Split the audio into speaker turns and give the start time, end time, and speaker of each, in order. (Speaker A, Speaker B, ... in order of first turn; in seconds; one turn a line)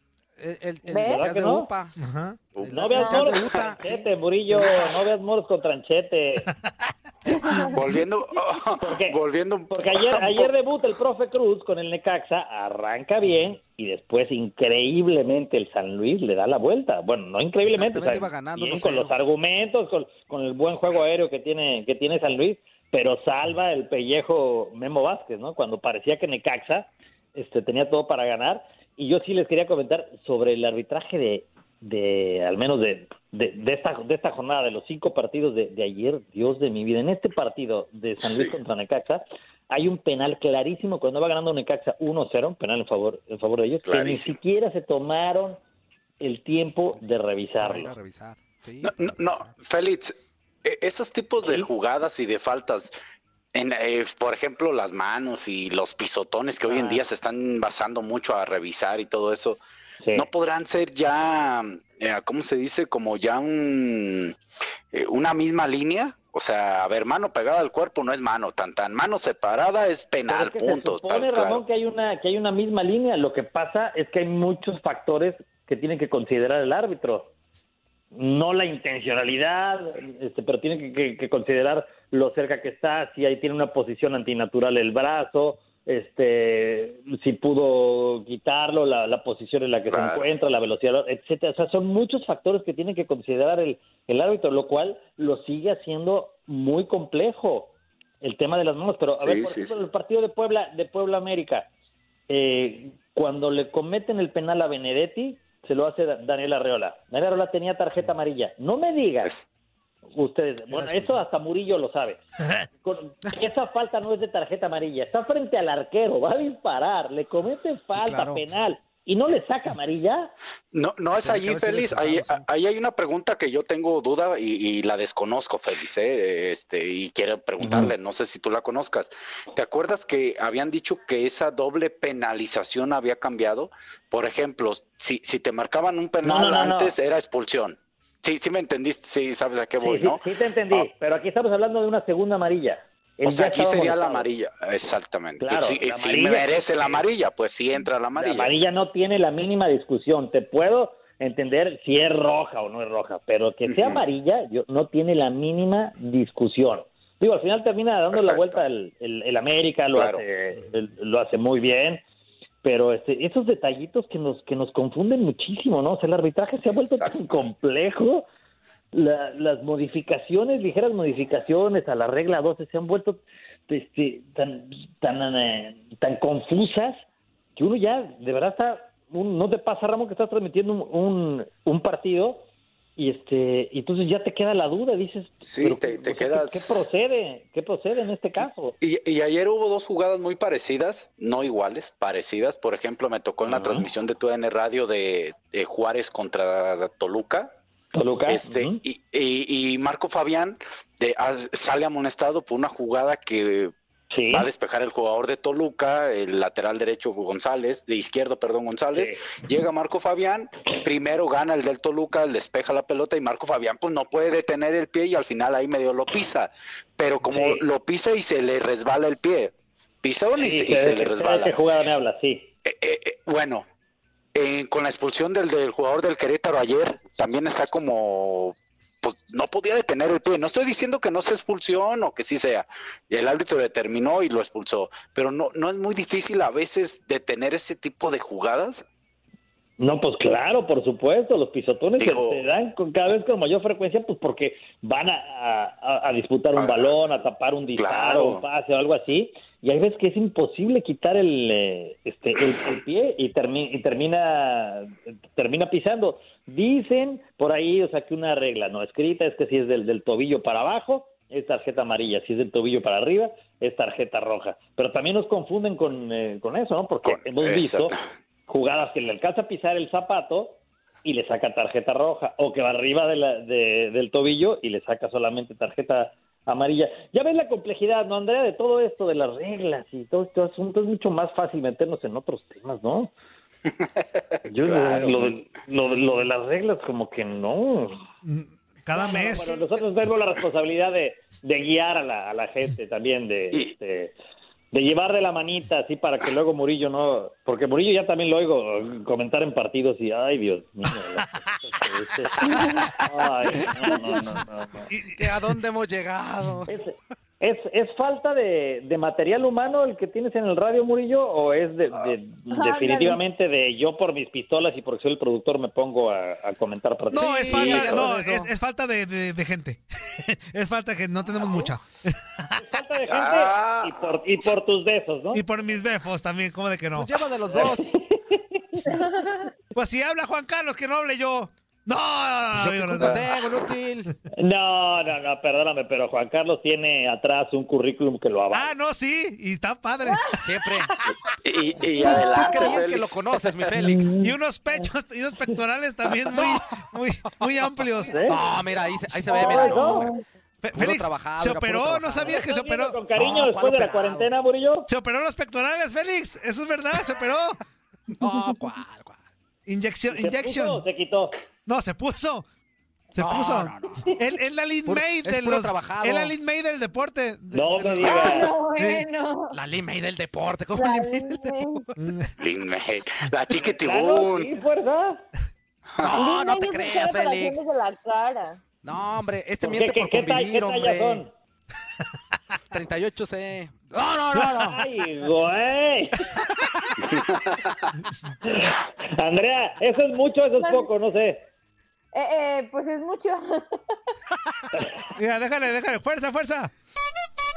Speaker A: 0.4-1.9
Speaker B: 0.9-1.3
Speaker C: 1.1-1.7
Speaker D: 2.0-2.4
Speaker E: 2.5-2.8
Speaker A: 2.6-4.8
Speaker C: 2.6-6.5
Speaker B: 2.9-3.3
Speaker B: 7.3-7.7
Speaker E: 7.7-10.5
Speaker C: 8.8-9.2
Speaker C: 9.7-45.6
Speaker A: 17.6-19.1
Speaker E: 38.2-38.5
Speaker E: 43.8-44.4
Speaker C: 46.2-47.9
Speaker A: 47.6-49.5
Speaker E: 48.8-52.9
Speaker C: 51.4-51.7
Speaker E: 53.5-59.6
Speaker C: 56.6-57.0
Speaker C: 60.0-60.3
Speaker E: 60.1-64.3
Speaker E: 64.9-71.6
Speaker C: 70.3-77.3
Speaker C: 78.1-101.7
Speaker E: 89.9-90.3
Speaker E: 99.2-99.8
Speaker C: 102.3-109.3
Speaker C: 110.1-112.2
Speaker A: 110.7-111.2
Speaker C: 112.8-120.3
Speaker A: 117.9-118.5
Speaker E: 120.7-140.9
Speaker A: 121.2-122.4
Speaker C: 127.6-127.9
Speaker C: 136.2-136.9
Speaker C: 139.8-144.2
Speaker E: 143.2-148.5
Speaker C: 145.4-147.1
Speaker C: 148.1-162.0
Speaker E: 153.7-154.0
Speaker E: 158.1-158.6
Speaker E: 159.9-160.2
Speaker C: 162.6-168.2
Speaker E: 167.0-167.5
Speaker C: 168.9-177.0
Speaker C: 177.6-182.4
Speaker C: 183.0-188.8
Speaker E: 185.4-186.8
Speaker E: 188.8-197.6
Speaker C: 193.4-193.9
Speaker C: 197.9-198.8
Speaker E: 198.3-203.7
Speaker C: 204.1-204.5
Speaker E: 204.3-221.6
Speaker C: 208.9-209.2
Speaker C: 217.2-217.6
Speaker C: 220.4-222.5
Speaker E: 222.6-223.7
Speaker E: 224.3-238.8
Speaker C: 239.8-267.9
Speaker E: 242.0-242.4
Speaker E: 246.6-247.2
Speaker E: 247.8-248.4
Speaker E: 267.0-268.0
Speaker C: 268.5-283.1
Speaker E: 283.8-285.3
Speaker C: 284.5-288.0
Speaker D: 288.2-289.6
Speaker C: 288.9-294.1
Speaker C: 294.7-304.9
Speaker D: 302.4-302.7
Speaker D: 304.9-305.2
Speaker A: 305.1-306.7
Speaker C: 306.7-318.1
Speaker B: 312.5-313.2
Speaker D: 317.1-322.6
Speaker A: 317.4-318.5
Speaker C: 322.6-325.4
Speaker E: 323.1-324.2
Speaker D: 325.3-327.1
Speaker A: 326.9-327.9
Speaker C: 327.5-328.9
Speaker B: 328.9-329.5
Speaker D: 329.7-333.2
Speaker A: 332.5-334.1
Speaker C: 334.3-338.7
Speaker D: 338.5-340.2
Speaker B: 340.0-341.0
Speaker A: 340.4-340.9
Speaker E: 341.4-343.6
Speaker B: 342.0-342.7
Speaker A: 342.0-344.1
Speaker C: 343.8-344.3
Speaker D: 344.2-348.1
Speaker A: 346.3-346.6
Speaker C: 348.1-348.4
Speaker A: 348.2-350.1
Speaker C: 349.3-350.1
Speaker B: 349.3-350.2
Speaker D: 350.6-353.0
Speaker A: 350.7-352.4
Speaker C: 352.2-354.9
Speaker A: 353.1-354.3
Speaker D: 354.9-357.6
Speaker A: 358.2-359.2
Speaker D: 359.6-360.8
Speaker C: 360.1-361.3
Speaker D: 361.6-362.4
Speaker D: 363.1-369.0
Speaker A: 363.2-364.1
Speaker A: 364.8-366.3
Speaker C: 367.5-368.5
Speaker B: 368.0-369.6
Speaker A: 369.5-371.6
Speaker B: 370.7-371.9
Speaker D: 372.0-372.3
Speaker E: 372.4-374.5
Speaker C: 373.7-375.2
Speaker A: 376.0-377.6
Speaker B: 376.1-378.6
Speaker A: 378.8-381.2
Speaker C: 379.6-381.3
Speaker A: 382.7-384.8
Speaker C: 384.5-386.2
Speaker C: 388.4-391.4
Speaker B: 390.6-390.9
Speaker B: 392.1-393.9
Speaker D: 395.1-396.7